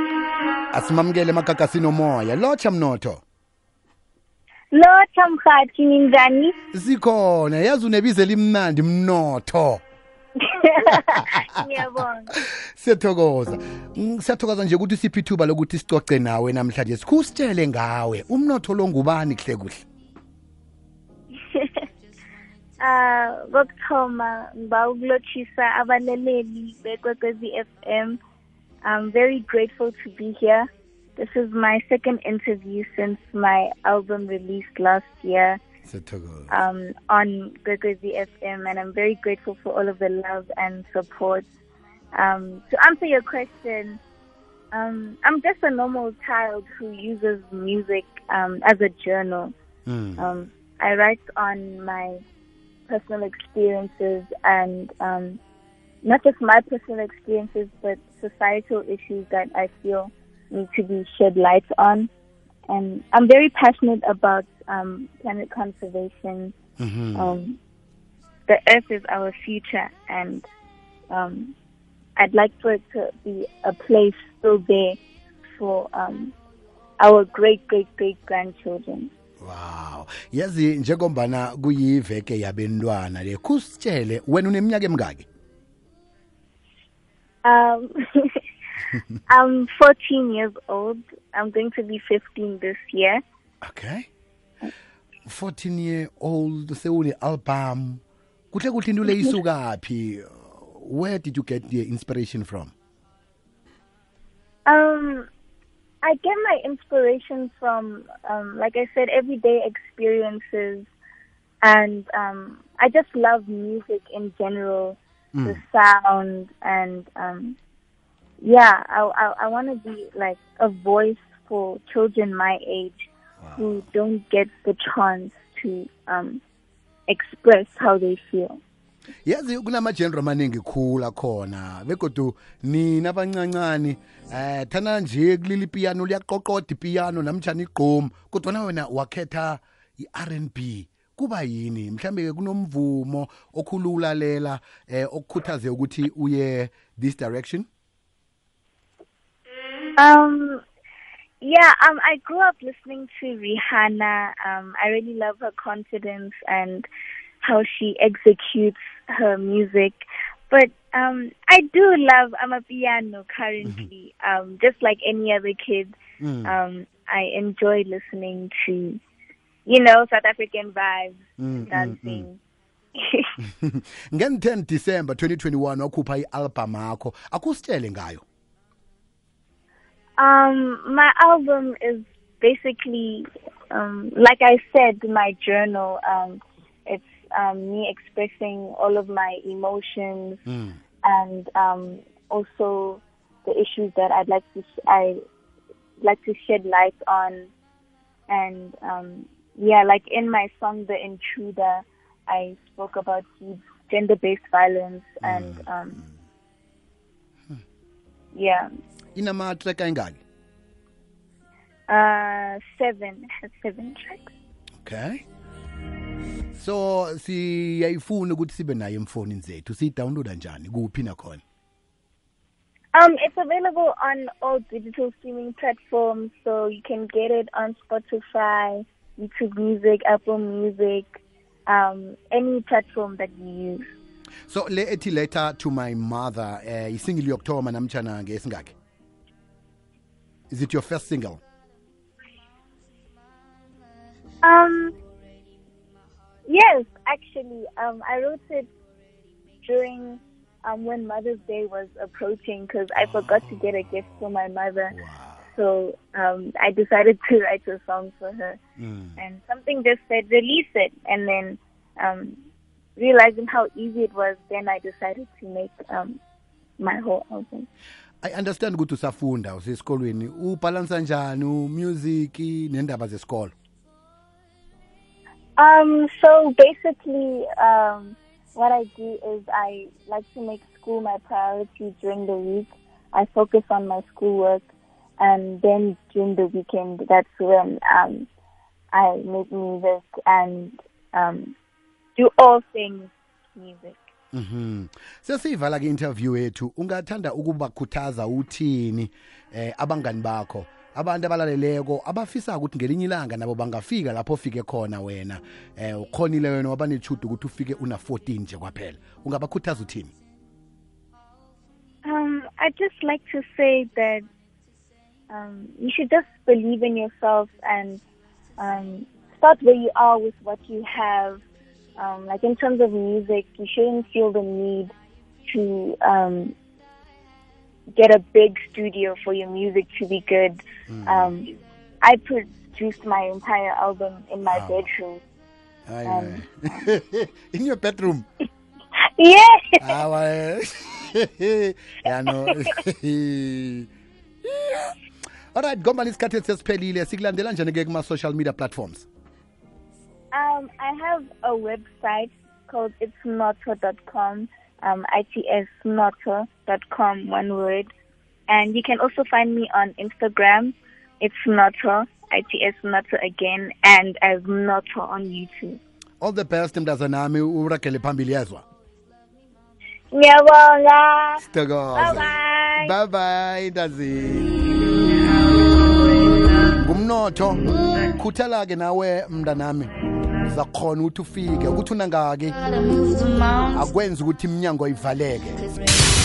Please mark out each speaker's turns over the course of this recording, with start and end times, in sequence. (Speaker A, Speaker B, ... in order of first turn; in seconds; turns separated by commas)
Speaker A: 0.7-3.2, Speaker B: 4.7-6.5, Speaker A: 6.7-9.8, Speaker B: 10.4-12.3, Speaker A: 12.7-19.8, Speaker B: 21.4-21.8, Speaker B: 22.8-28.2, Speaker B: 28.8-35.6, Speaker A: 35.9-36.5, Speaker B: 36.5-41.5, Speaker B: 42.1-44.0, Speaker B: 44.7-49.5, Speaker A: 49.9-50.3, Speaker B: 50.2-52.2, Speaker B: 52.9-55.4, Speaker B: 56.0-62.1, Speaker B: 62.7-66.5, Speaker A: 66.8-67.4, Speaker B: 67.2-67.6, Speaker B: 68.5-70.5, Speaker B: 71.1-71.5, Speaker B: 72.2-75.0, Speaker B: 75.6-76.3, Speaker B: 77.0-79.1, Speaker A: 79.4-85.3, Speaker B: 87.4-88.4, Speaker B: 89.3-93.2, Speaker A: 93.6-94.1, Speaker A: 95.3-98.0, Speaker A: 98.5-102.7, Speaker B: 104.7-105.3, Speaker B: 106.0-110.9, Speaker B: 111.6-117.6, Speaker A: 115.3-115.6, Speaker B: 118.4-126.4, Speaker A: 123.4-123.8, Speaker B: 127.1-128.6, Speaker A: 129.3-147.7, Speaker B: 150.0-150.6, Speaker B: 151.4-156.9, Speaker B: 157.4-169.0, Speaker A: 166.2-166.6, Speaker B: 169.7-172.4, Speaker A: 171.4-172.3, Speaker B: 173.0-173.3, Speaker A: 173.5-178.2, Speaker B: 180.2-190.4, Speaker A: 190.5-190.8, Speaker B: 191.0-195.2, Speaker B: 196.0-197.5, Speaker B: 198.3-206.0, Speaker A: 205.2-205.6, Speaker B: 208.3-208.7, Speaker A: 209.2-210.2, Speaker B: 211.9-214.3, Speaker A: 214.8-215.2, Speaker A: 216.6-221.4, Speaker B: 222.9-231.1, Speaker B: 231.7-233.9, Speaker A: 234.5-238.7, Speaker A: 240.5-241.4, Speaker B: 244.4-244.9, Speaker B: 246.5-248.7, Speaker B: 249.6-255.0, Speaker A: 254.9-255.4, Speaker B: 255.5-258.6, Speaker A: 258.8-259.2, Speaker B: 259.2-262.4, Speaker B: 263.0-266.2, Speaker B: 266.8-267.7, Speaker A: 268.2-273.5, Speaker B: 275.6-284.6, Speaker B: 285.2-288.3, Speaker B: 288.9-291.6, Speaker B: 292.2-294.0, Speaker A: 294.3-310.1, Speaker B: 312.0-314.2, Speaker B: 315.3-318.0, Speaker B: 318.6-321.4, Speaker B: 322.0-324.9, Speaker B: 325.5-326.6, Speaker B: 328.0-335.2, Speaker A: 330.9-331.3, Speaker A: 334.5-334.8, Speaker A: 335.9-338.3, Speaker B: 336.1-336.8, Speaker B: 339.2-339.9, Speaker A: 339.8-343.9, Speaker B: 342.3-342.8, Speaker A: 344.4-344.9, Speaker A: 345.5-349.1, Speaker B: 350.3-357.9, Speaker B: 358.5-365.8, Speaker A: 366.2-368.6, Speaker B: 370.1-371.4, Speaker A: 371.4-374.5, Speaker B: 371.9-372.9, Speaker B: 374.8-376.7, Speaker A: 376.8-379.9, Speaker A: 380.4-382.6, Speaker A: 383.7-385.6